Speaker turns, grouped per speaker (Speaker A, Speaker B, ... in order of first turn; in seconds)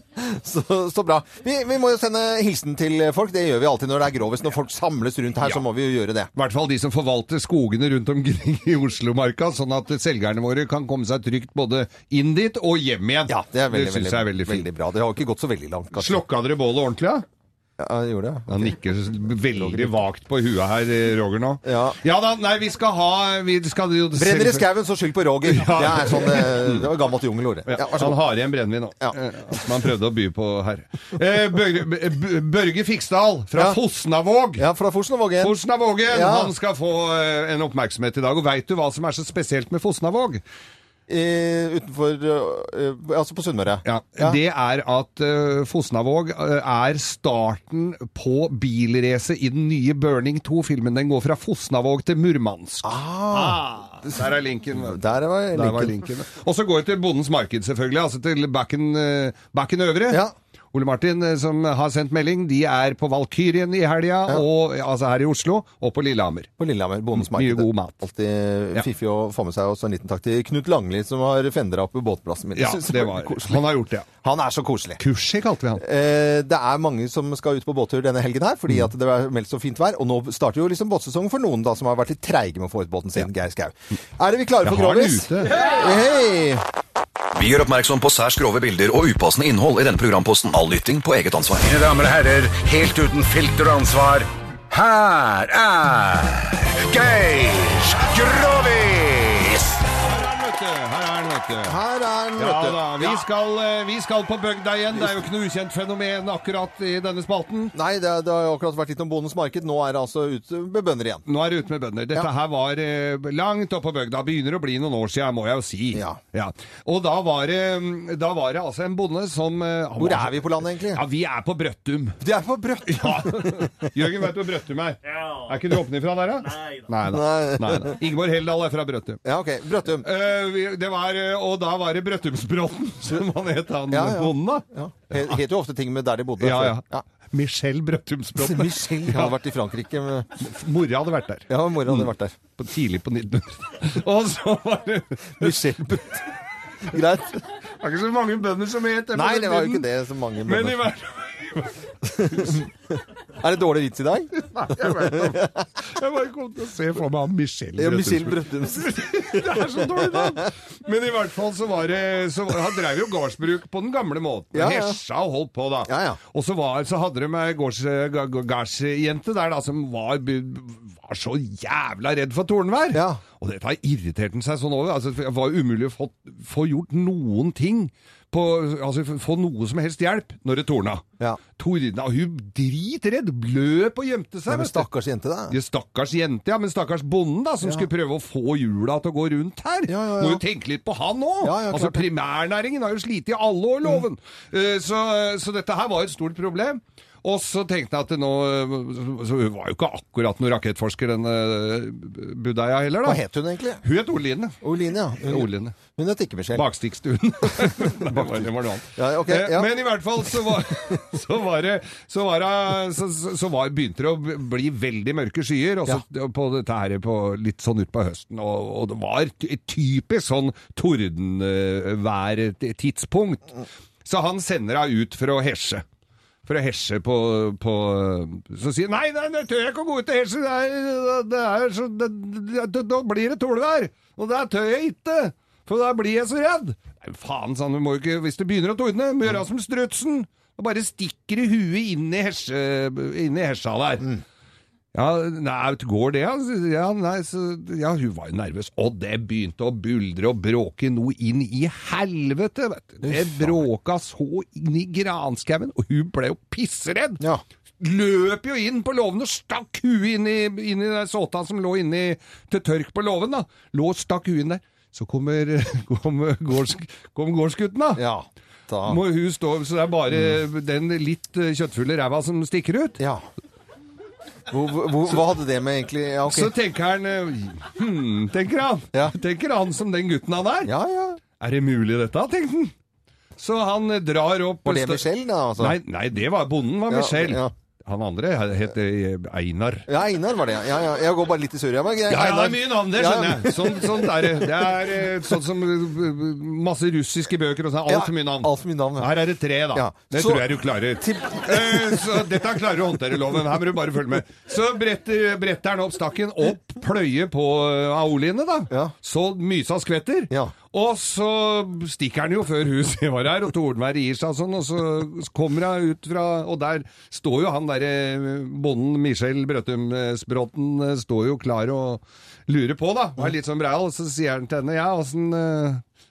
Speaker A: 0.1-6.3, 13.3-16.2, 17.8-18.7, 19.6-19.9, 21.6-22.0, 24.1-28.2, 33.5-33.8, 34.6-36.5, 41.1-44.4, 52.8-53.6, 54.7-56.0, 66.6-73.7, 74.2-75.0, 75.8-86.6, 101.6-103.2, 107.7-111.2, 115.9-116.2, 120.0-121.0, 122.2-123.9, 127.0-128.0, 129.2-130.1, 133.9-137.0, 138.4-140.3, 141.5-142.3, 145.4-146.2, 146.8-147.4, 149.1-150.9, 152.1-152.7, 153.4-155.5, 157.8-160.4, 164.5-165.0, 165.8-166.2, 172.9-173.2, 184.5-185.6, 187.6-187.9, 189.9-190.4, 191.4-192.1, 203.0-203.8, 204.6-206.7, 207.6-209.7, 253.0-253.6, 267.9-269.0, 274.5-276.5, 280.6-281.2, 284.6-285.8, 286.9-287.5, 289.9-295.1, 297.9-299.1, 299.7-300.4, 301.0-302.2
Speaker B: 6.3-14.7, 15.9-17.2, 18.5-24.6, 25.4-27.0, 27.7-34.6, 35.4-40.4, 43.8-55.0, 55.5-66.5, 67.1-68.0, 72.5-74.1, 75.0-75.8, 84.6-85.7, 98.0-98.4, 100.0-101.8, 102.4-107.7, 111.2-122.2, 122.9-129.2, 130.0-135.4, 136.4-139.4, 140.4-145.9, 147.8-149.9, 150.4-152.6, 154.5-181.0, 181.6-184.9, 185.5-203.2, 203.8-204.6, 205.2-205.8, 206.5-225.8, 226.4-244.2, 244.9-257.2, 257.8-268.0, 268.8-273.0, 276.2-280.7, 281.4-282.7, 283.4-285.1, 285.6-289.9, 292.1-325.8
Speaker C: 87.3-91.8
Speaker D: 91.7-99.8